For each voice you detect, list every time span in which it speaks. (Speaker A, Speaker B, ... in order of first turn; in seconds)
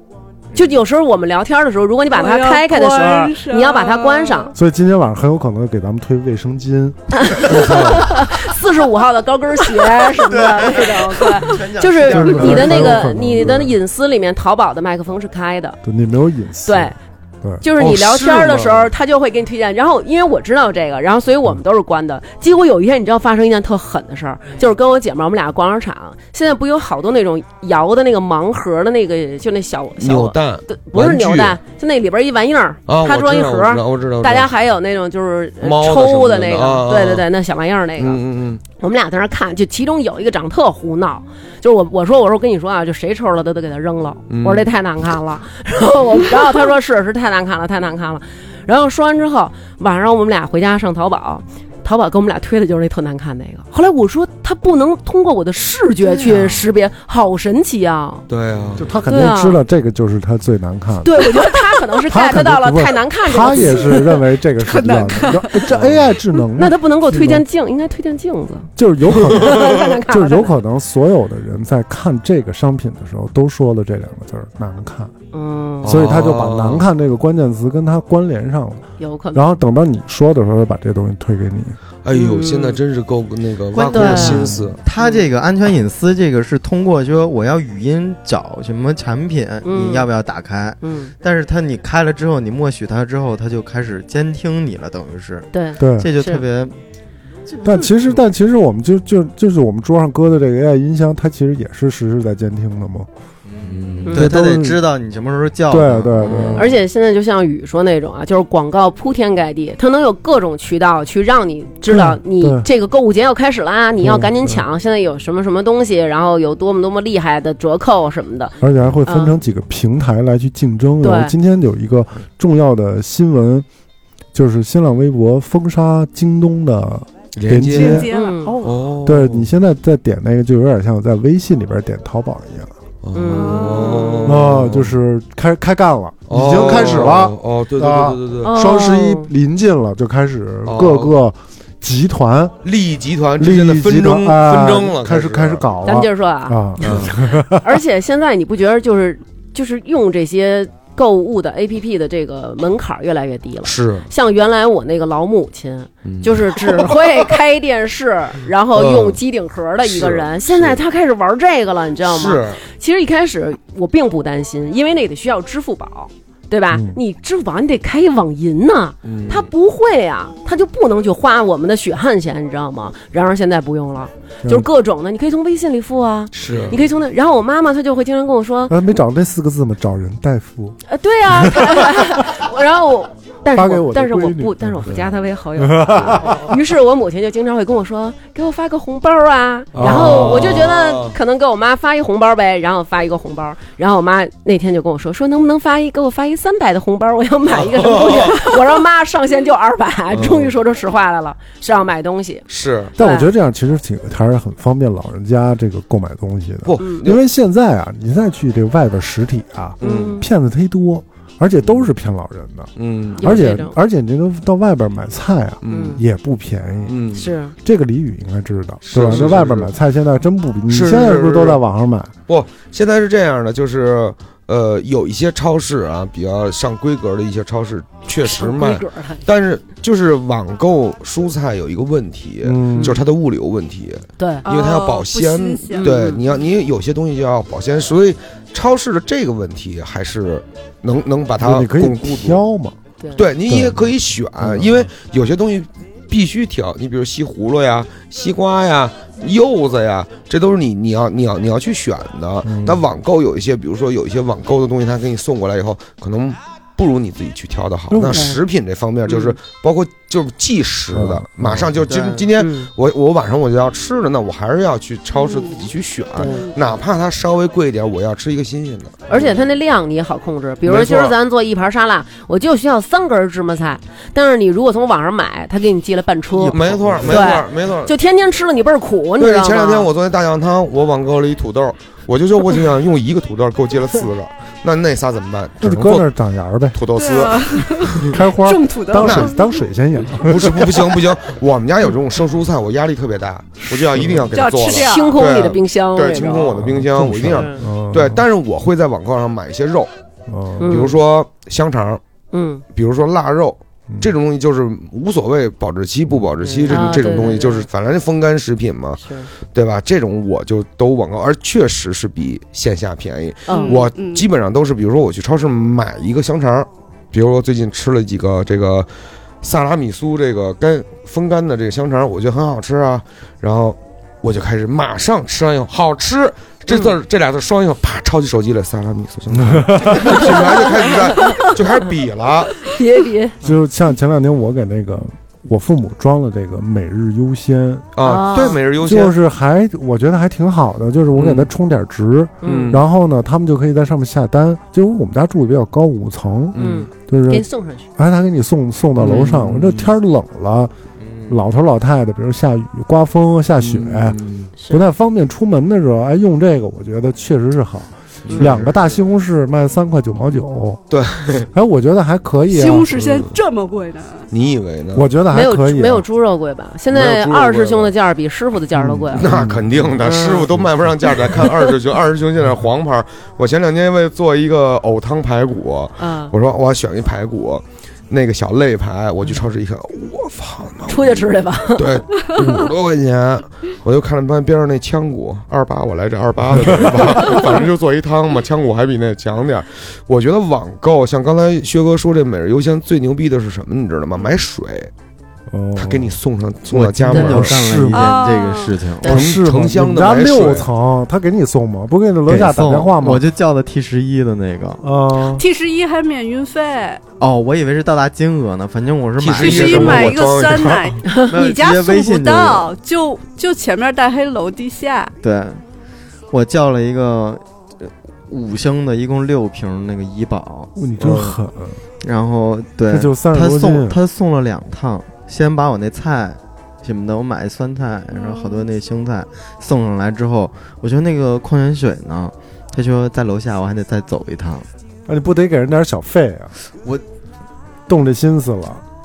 Speaker A: 0.6-4.5, 7.2-15.8, 16.7-16.9, 17.6-58.3, 59.1-59.6, 61.0-64.0, 66.6-68.7, 69.2-70.6, 75.3-76.1, 79.0-79.5, 82.1-82.8, 83.9-85.3, 89.7-90.1, 90.8-91.1, 95.5-96.4, 106.5-118.5, 119.1-119.4, 121.0-121.3, 128.1-128.5, 133.1-134.0, 138.4-139.3, 145.8-147.0, 147.6-178.8, 180.9-202.4, 203.0-203.3, 209.8-210.3, 213.2-213.8, 215.7-216.0, 217.1-217.6, 228.2-229.2, 232.8-233.0, 234.2-234.4, 235.8-236.2, 258.1-258.4, 262.4-262.7, 266.2-266.4, 269.1-279.9, 294.7-296.6, 297.3-297.6, 300.6-301.0, 302.3-302.6, 306.4-307.7, 309.0-309.3, 313.5-313.8, 330.0-331.5, 332.6-333.4, 338.0-338.6, 342.4-342.8, 346.6-347.9, 354.6-354.8, 365.3-369.3, 370.0-370.5, 371.3-371.6, 376.0-376.3, 380.9-382.0
Speaker B: 2.1-4.5, 64.6-65.7, 127.7-128.8, 133.3-134.4, 234.4-236.0, 265.2-265.5, 287.0-289.5, 294.3-295.2, 313.5-314.3, 362.5-364.3, 397.9-398.8, 405.2-407.0, 409.4-415.1
Speaker C: 4.5-7.4, 12.1-13.7, 15.8-17.6, 58.8-61.3, 62.1-67.5, 68.8-75.1, 75.8-78.8, 79.3-81.8, 95.8-96.1, 97.6-103.1, 104.2-104.8, 105.7-106.7, 111.9-112.7, 114.0-114.6, 118.6-123.7, 124.3-128.1, 129.0-132.7, 134.2-142.6, 143.4-147.7, 166.7-167.0, 178.7-182.3, 183.5-185.0, 185.6-186.5, 189.8-190.5, 203.0-217.0, 217.6-222.1, 232.4-233.0, 241.4-242.8, 243.5-244.9, 252.4-252.8, 257.9-258.3, 260.9-261.8, 285.6-286.8, 288.0-291.1, 293.9-294.3, 296.5-298.2, 300.3-300.8, 329.3-330.3, 333.4-350.7, 351.3-360.8, 361.4-362.9, 364.9-366.1, 368.8-370.0, 386.5-387.4, 395.5-396.2, 397.1-398.3, 399.0-403.2, 404.8-405.4, 420.8-421.8, 422.9-424.0, 435.1-436.5, 437.9-438.8
Speaker D: 7.5-8.2, 17.8-18.9, 30.0-31.6, 32.9-34.5, 35.6-37.3, 38.0-38.6, 44.3-44.7, 58.3-58.9, 65.7-66.1, 75.8-76.8, 82.0-84.8, 103.7-104.1, 127.4-128.1, 128.6-129.5, 133.0-134.9, 136.3-138.5, 140.7-141.2, 142.6-145.7, 146.8-147.2, 153.6-154.1, 156.1-157.2, 158.7-159.2, 159.8-160.8, 162.1-162.6, 169.0-169.5, 176.3-176.8, 189.7-191.2, 197.5-198.5, 200.1-200.5, 202.5-202.9, 206.7-207.2, 209.8-210.2, 211.6-211.9, 212.8-213.4, 215.6-216.0, 216.9-217.3, 218.8-219.7, 220.7-221.6, 222.3-242.4, 243.2-269.4, 270.6-271.2, 276.5-277.9, 279.2-286.1, 286.7-288.1, 289.0-289.3, 290.2-299.9, 300.6-302.0, 302.7-309.0, 309.5-318.9, 319.4-332.8, 338.0-339.2, 341.1-341.5, 342.4-342.8, 346.5-346.9, 349.0-349.9, 353.6-354.5, 358.3-358.8, 360.9-361.5, 362.9-363.3, 364.3-365.1, 366.9-367.9, 369.1-394.9, 395.8-397.6, 399.0-400.7, 409.2-411.0
Speaker E: 10.2-13.1, 56.2-56.7, 83.7-96.8, 97.5-97.9, 103.5-106.8, 261.9-262.3, 276.4-277.4, 351.1-351.3, 396.7-399.2, 402.3-404.9, 407.2-410.2, 411.2-412.7, 415.2-415.6, 416.3-421.4, 422.0-434.7